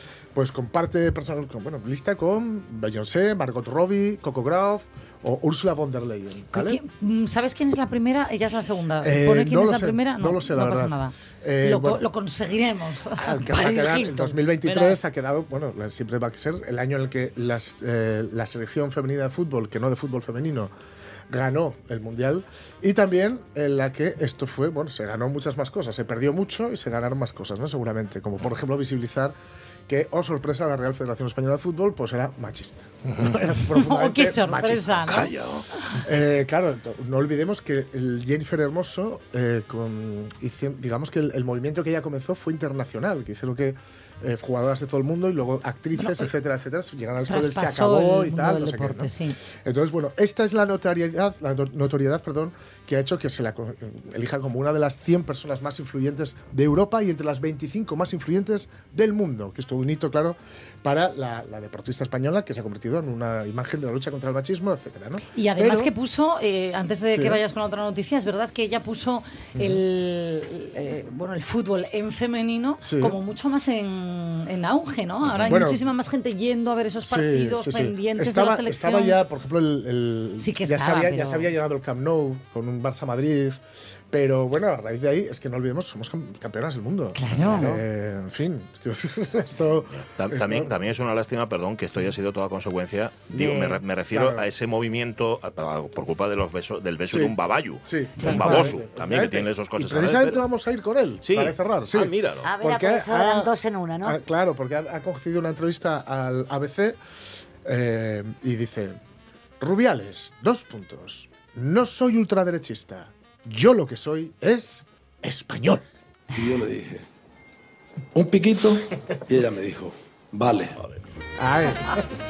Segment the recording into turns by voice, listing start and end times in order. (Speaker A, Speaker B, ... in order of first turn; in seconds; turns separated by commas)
Speaker A: 0.3-6.8, Speaker B: 6.5-14.9, Speaker A: 9.0-12.0, Speaker A: 13.2-20.7, Speaker A: 21.3-29.3, Speaker A: 29.9-35.2, Speaker C: 33.1-33.5, Speaker B: 33.6-36.0, Speaker C: 35.0-35.7, Speaker A: 36.0-49.1, Speaker B: 46.0-46.3, Speaker B: 47.3-49.4, Speaker A: 49.6-65.9, Speaker B: 65.3-79.2, Speaker A: 67.1-67.4, Speaker A: 69.6-69.8, Speaker A: 72.8-73.2, Speaker C: 75.2-75.6, Speaker A: 75.5-75.8, Speaker A: 77.0-90.7, Speaker B: 80.4-81.5, Speaker B: 87.2-87.8, Speaker C: 89.9-100.4, Speaker D: 93.3-93.8, Speaker A: 94.1-94.4, Speaker A: 97.1-97.3, Speaker A: 97.8-103.5, Speaker D: 98.2-98.7, Speaker C: 101.2-102.6, Speaker D: 102.4-104.2, Speaker A: 104.0-107.0, Speaker A: 107.6-109.0, Speaker A: 109.6-115.9, Speaker E: 116.3-117.0, Speaker E: 118.2-120.8, Speaker A: 121.4-122.0